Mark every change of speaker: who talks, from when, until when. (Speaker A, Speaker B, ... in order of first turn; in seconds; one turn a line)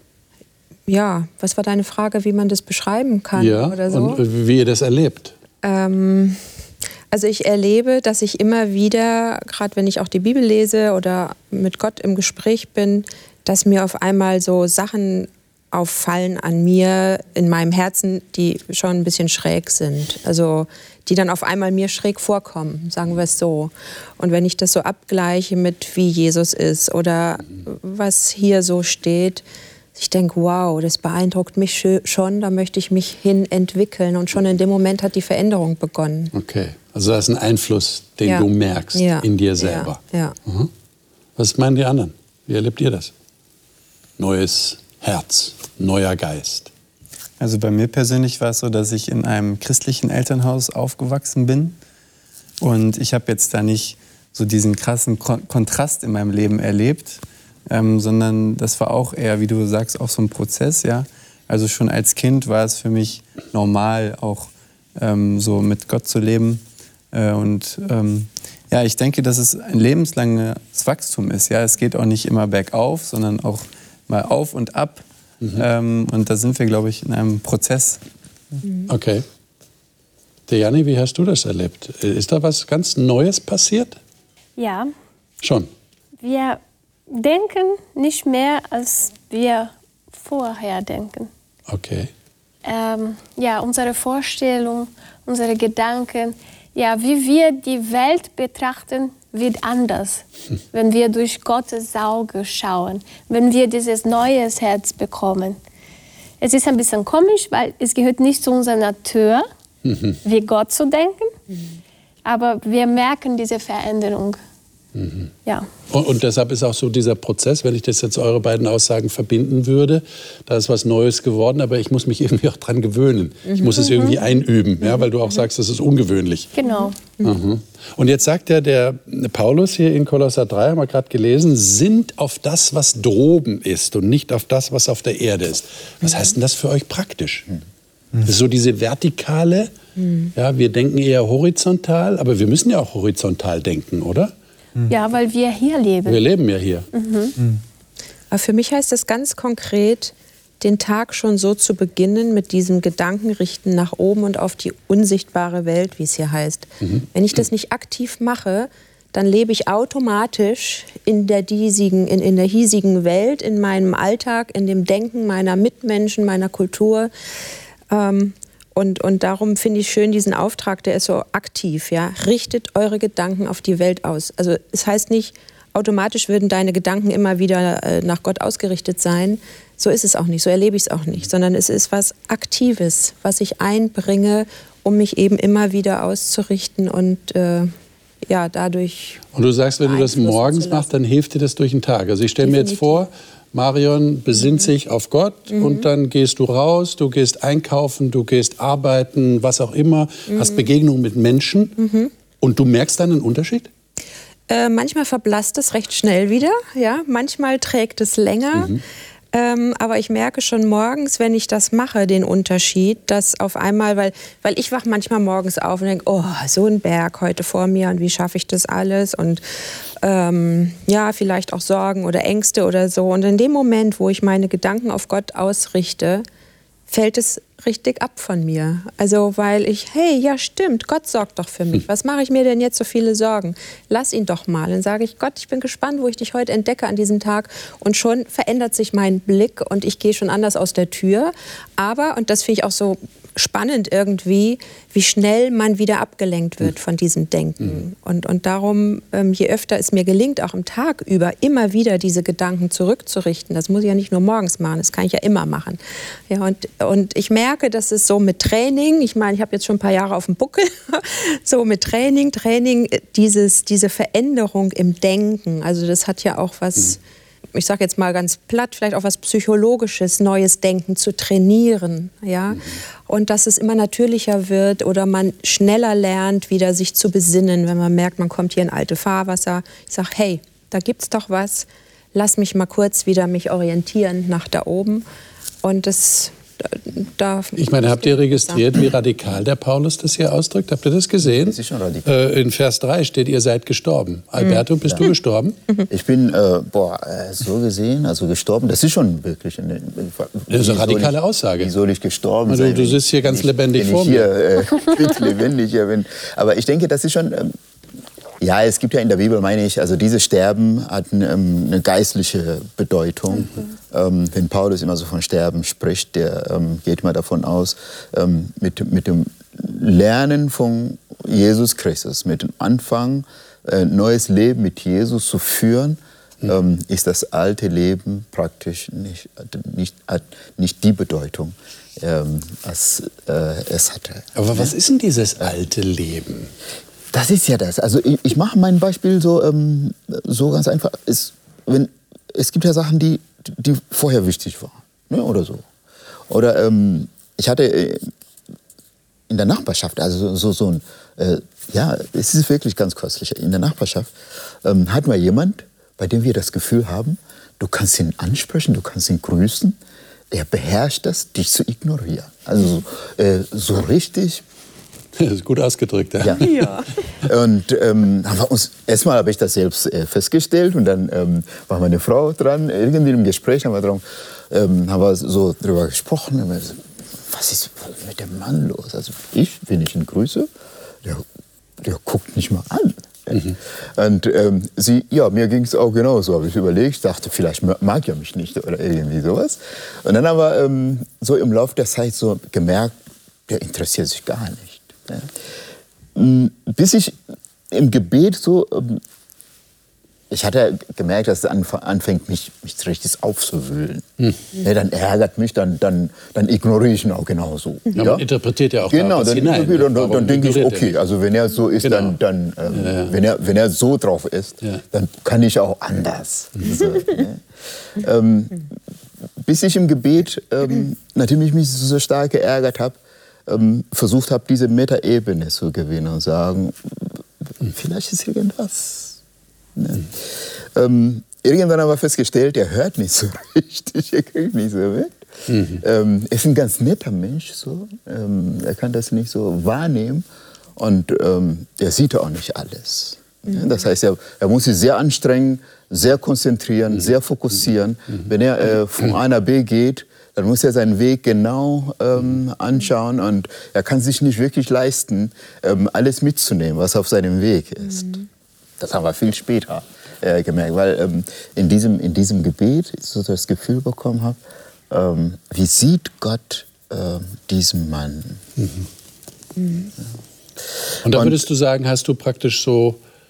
Speaker A: 0.9-4.2
Speaker B: 3.4-5.3
Speaker A: 5.6-6.4
Speaker A: 7.1-29.4
Speaker A: 29.9-36.3
Speaker B: 36.3-40.7
Speaker A: 38.2-40.4
Speaker B: 41.4-43.1
Speaker B: 44.2-46.7
Speaker C: 47.4-51.8
Speaker C: 52.6-78.0
Speaker B: 78.9-79.2
Speaker B: 80.5-84.0
Speaker D: 84.6-84.9
Speaker B: 85.4-85.7
Speaker D: 86.2-91.3
Speaker B: 91.7-92.1
Speaker D: 92.7-105.6
Speaker D: 106.4-109.5
Speaker B: 109.8-110.2
Speaker D: 110.2-111.3
Speaker D: 112.2-114.4
Speaker B: 114.9-115.3
Speaker B: 115.9-126.5
Speaker D: 123.8-124.2
Speaker D: 126.5-127.0
Speaker B: 127.2-137.5
Speaker B: 138.2-139.7
Speaker A: 140.0-140.3
Speaker B: 140.3-144.3
Speaker D: 144.9-146.2
Speaker B: 146.1-146.9
Speaker D: 146.9-147.3
Speaker A: 148.3-167.1
Speaker A: 167.9-187.7
Speaker A: 188.3-189.2
Speaker B: 189.3-201.8
Speaker A: 189.8-190.9
Speaker A: 192.4-193.0
Speaker A: 195.5-195.9
Speaker A: 200.3-200.7
Speaker A: 201.8-202.1
Speaker B: 202.4-203.7
Speaker A: 204.5-208.8
Speaker B: 208.5-208.8
Speaker A: 209.3-219.4
Speaker A: 220.0-226.2
Speaker A: 226.9-267.0
Speaker A: 267.6-285.0
Speaker A: 285.6-288.6
Speaker B: 287.6-295.6
Speaker E: 291.2-292.1
Speaker E: 295.9-307.6
Speaker B: 300.5-301.7
Speaker B: 302.5-304.3
Speaker E: 308.4-334.7
Speaker B: 334.4-336.5
Speaker E: 337.1-345.6
Speaker E: 346.3-348.1
Speaker E: 349.3-359.8
Speaker E: 360.3-364.4
Speaker B: 365.2-366.6
Speaker E: 366.2-380.5
Speaker A: 366.4-366.9
Speaker E: 381.8-392.9
Speaker E: 393.5-395.3
Speaker E: 396.1-399.0
Speaker E: 400.3-408.2
Speaker B: 407.9-410.9
Speaker E: 408.9-417.4
Speaker B: 411.8-412.2
Speaker B: 412.7-413.1
Speaker E: 417.9-418.8
Speaker E: 419.4-429.2
Speaker E: 429.8-440.2
Speaker E: 440.8-458.3
Speaker E: 458.8-468.4
Speaker A: 469.6-469.9
Speaker B: 471.0-473.0
Speaker E: 471.1-471.4